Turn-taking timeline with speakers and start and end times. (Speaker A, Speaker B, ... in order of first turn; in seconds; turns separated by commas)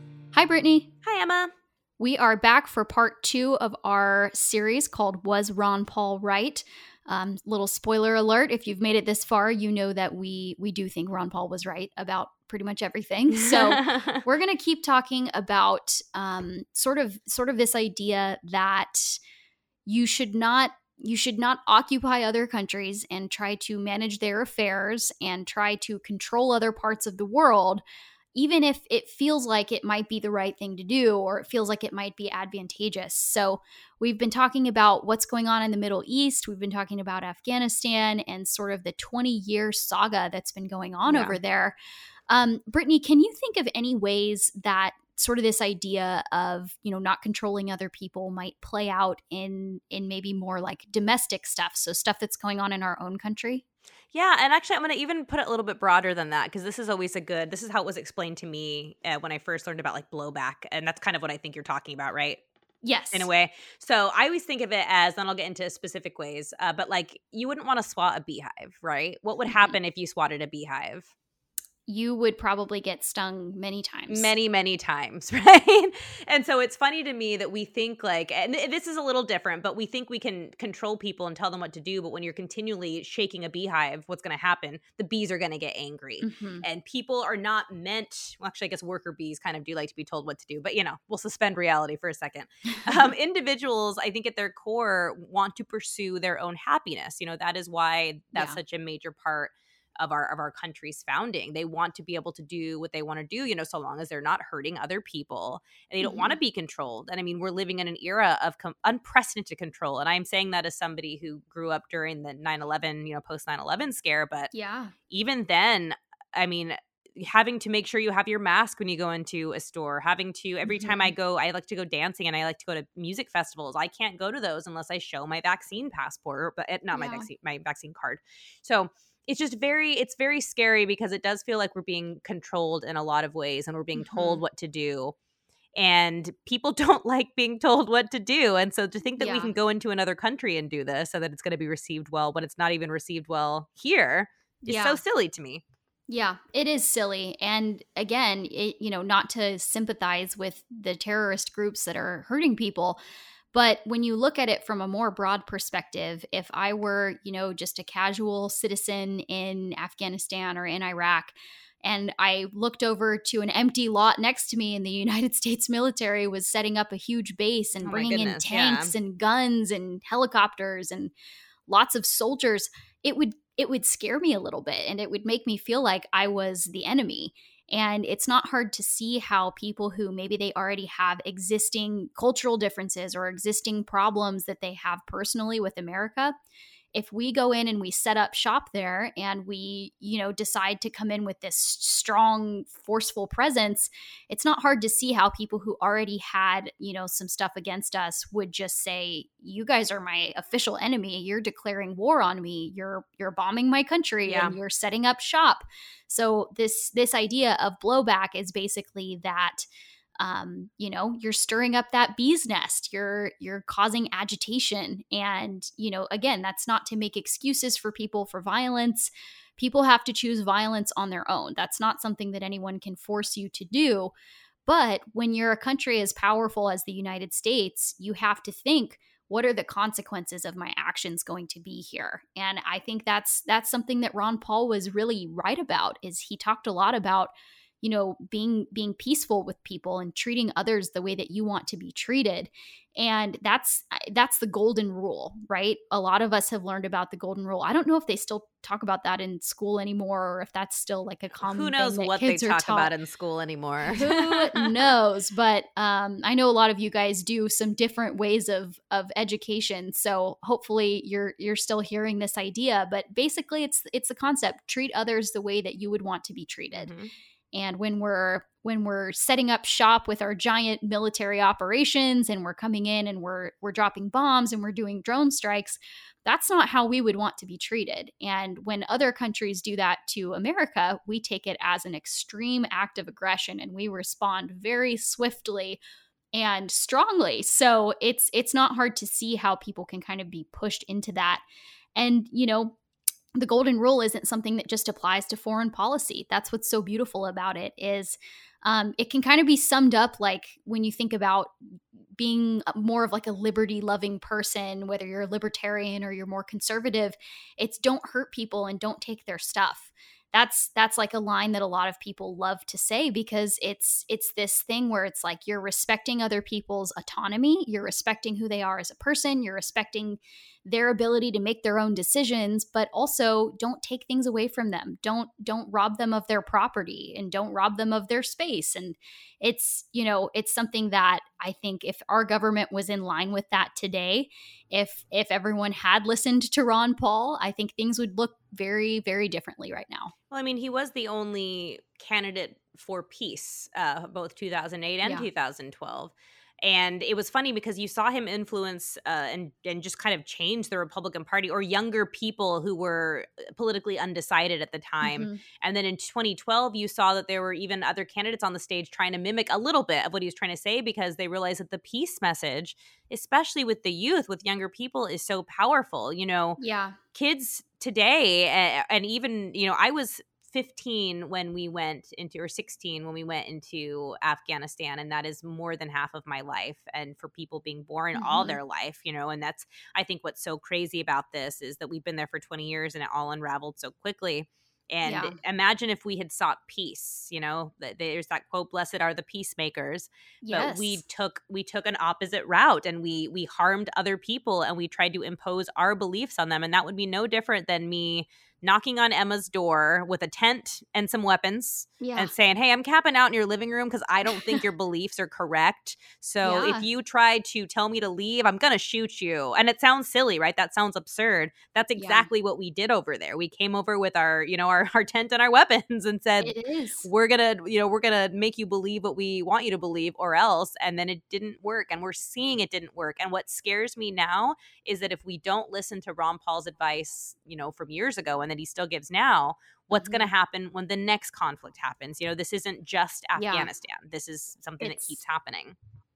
Speaker A: 0.3-0.9, Speaker B: 1.0-1.5, Speaker A: 2.0-19.2, Speaker B: 13.4-14.2, Speaker A: 19.9-27.8, Speaker A: 28.4-41.8, Speaker B: 41.1-41.4, Speaker A: 42.3-53.6, Speaker B: 54.1-62.4, Speaker A: 62.8-63.3, Speaker B: 63.1-71.1, Speaker A: 69.5-69.8, Speaker A: 71.9-74.3, Speaker B: 74.1-114.5, Speaker A: 86.2-86.7, Speaker A: 106.0-106.4, Speaker A: 114.5-114.9, Speaker B: 115.1-135.2, Speaker A: 120.7-121.1, Speaker A: 126.9-127.3, Speaker A: 133.9-134.4, Speaker B: 135.8-145.6, Speaker A: 139.2-139.6, Speaker A: 144.7-145.0, Speaker A: 146.1-153.0, Speaker A: 153.5-171.1, Speaker B: 167.8-168.9, Speaker A: 171.7-186.3, Speaker A: 186.9-209.6, Speaker B: 204.2-204.6, Speaker A: 210.2-224.1, Speaker A: 224.7-252.9, Speaker B: 251.4-254.8, Speaker A: 253.9-266.9, Speaker B: 266.7-267.1, Speaker A: 267.5-285.8, Speaker A: 286.3-291.4, Speaker A: 292.0-292.8, Speaker A: 293.4-301.5, Speaker A: 302.2-340.1, Speaker B: 340.3-366.6, Speaker A: 345.0-345.3, Speaker A: 355.0-355.4, Speaker A: 366.6-367.0, Speaker B: 367.1-435.8, Speaker A: 378.1-378.6, Speaker A: 385.0-385.4, Speaker A: 390.4-391.0, Speaker A: 402.0-402.3, Speaker A: 406.4-406.9, Speaker A: 412.0-412.3, Speaker A: 416.4-417.1, Speaker A: 429.9-430.3, Speaker A: 433.4-433.7, Speaker A: 434.8-435.2